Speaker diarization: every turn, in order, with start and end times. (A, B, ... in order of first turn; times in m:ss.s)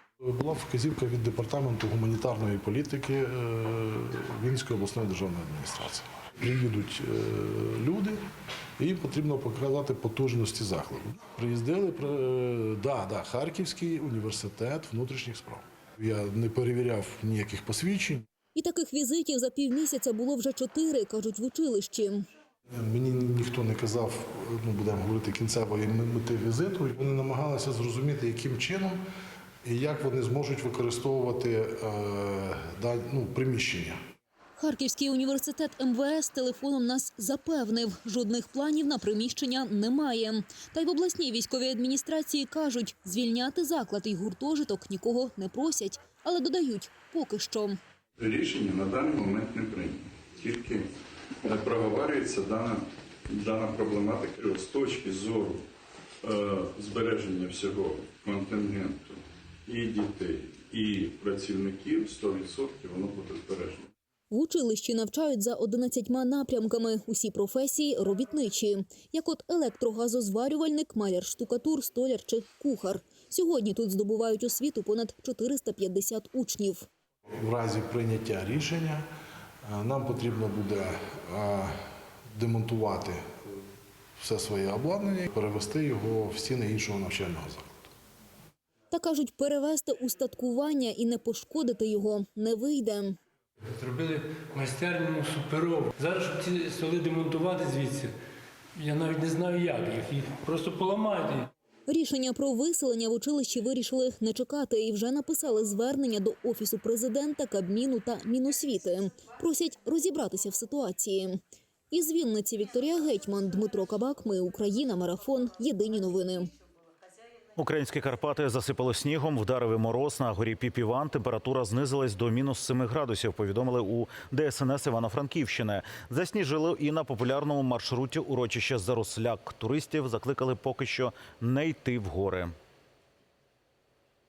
0:00.2-0:08.2 A
0:08.8-0:18.2 A
0:18.5-0:22.2 B
0:22.7-0:29.0 A
0:29.6-0:34.0 A
0:34.6-0:47.8 B
0:48.2-0:50.9 C
0:51.4-0:55.6 C
0:56.2-1:03.9 C
1:04.3-1:16.8 B
1:17.4-1:19.0 A
1:19.7-1:21.8 A
1:22.3-1:23.2 A
1:24.2-1:27.9 A
1:28.9-1:33.2 B
1:33.8-1:38.1 D
1:38.8-1:41.4 D
1:41.9-1:51.4 B
1:51.9-1:56.5 B
1:57.6-2:12.5 E